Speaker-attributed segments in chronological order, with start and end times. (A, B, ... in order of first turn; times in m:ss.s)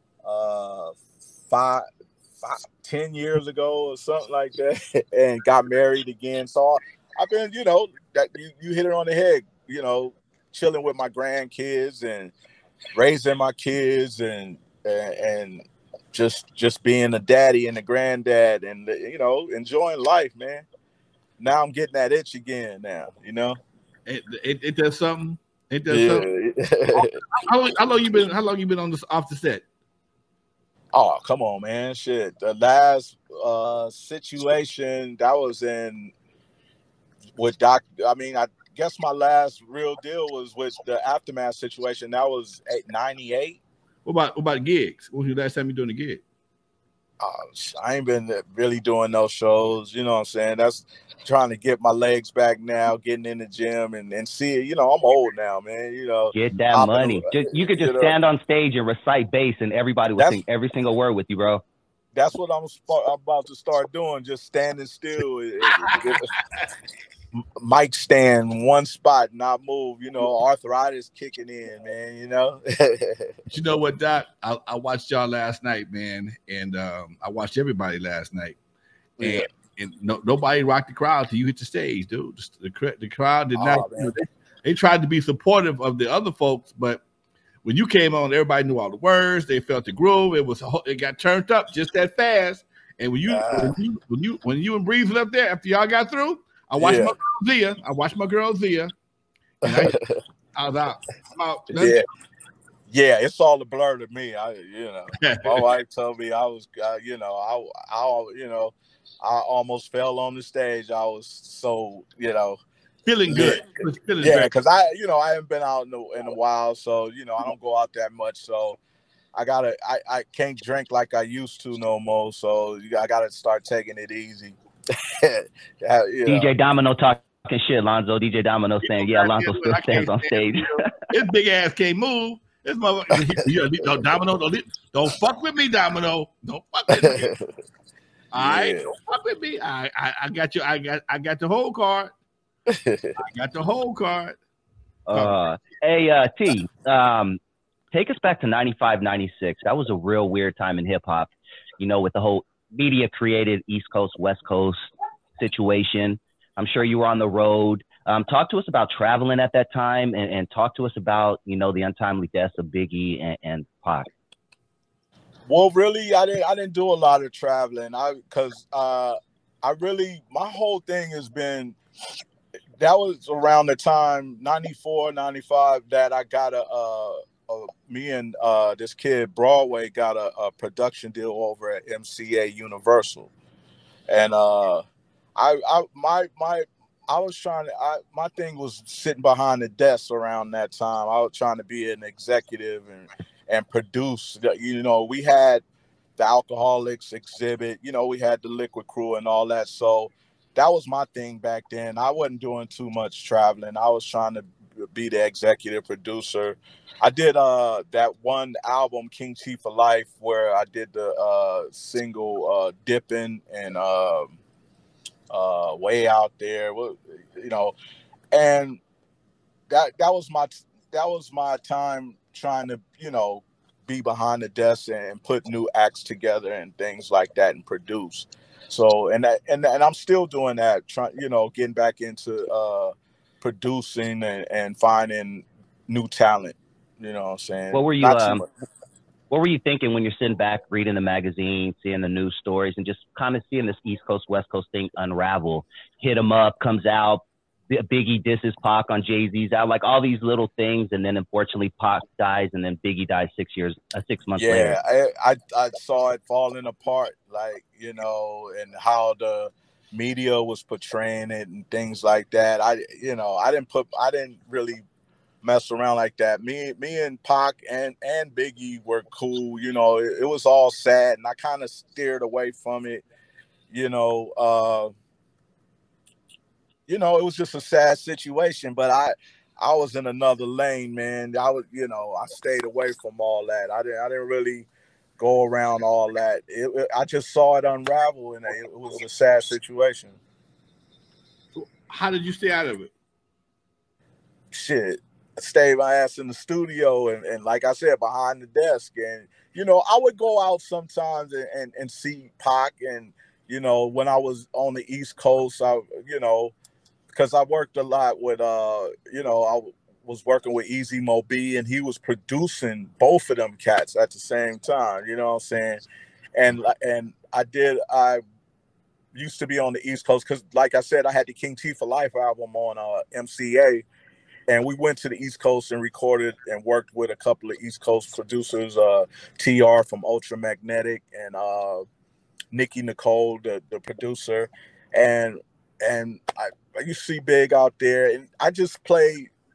0:00.2-0:01.0 A
0:01.5-0:01.8 A
0:02.4-0:12.3 A
0:13.0-0:20.6 A
0:21.4-0:23.6 A
0:24.1-0:26.3 B
0:25.9-0:27.2 A
0:27.0-0:29.6 B
0:30.9-0:36.1 A
0:37.4-0:43.6 A
0:44.0-0:46.2 B
0:47.2-0:58.2 A
0:56.3-1:01.6 C
1:02.1-1:06.2 A
1:07.6-1:13.3 A
1:13.5-1:18.6 B
1:19.2-1:19.5 A
1:19.2-1:27.0 B
1:23.6-1:24.1 A
1:27.6-1:38.9 B
1:33.3-1:33.8 A
1:36.8-1:37.2 A
1:39.6-1:40.0 B
1:39.6-1:40.2 A
1:40.6-1:42.0 B
1:41.8-1:42.0 A
1:42.9-1:52.6 A
1:45.2-1:45.6 B
1:53.0-1:54.5 B
1:53.3-1:58.8 A
1:59.4-2:06.5 A
2:06.3-2:10.9 C
2:08.8-2:17.3 B
2:16.9-2:17.5 A
2:18.3-2:22.1 B
2:18.4-2:18.9 A
2:22.7-2:23.2 A
2:23.2-2:24.4 B
2:25.1-2:27.4 C
2:25.1-2:25.4 B
2:27.9-2:44.1 C
2:45.5-2:51.8 A
2:52.8-3:03.3 A
3:04.1-3:04.8 A
3:05.4-3:15.6 A
3:16.2-3:34.4 A
3:35.3-3:37.8 A
3:38.3-3:38.8 A
3:39.7-3:58.5 A
3:57.7-3:58.4 C
3:59.3-4:14.8 C
4:14.4-4:24.8 A
4:25.4-4:33.0 A
4:33.7-4:34.9 A
4:36.9-4:44.7 A
4:45.2-4:50.2 A
4:51.6-4:52.9 B
4:54.5-5:06.5 A
5:07.1-5:15.8 A
5:16.4-5:18.2 A
5:19.1-5:23.8 A
5:24.5-5:31.8 A
5:32.5-5:39.3 A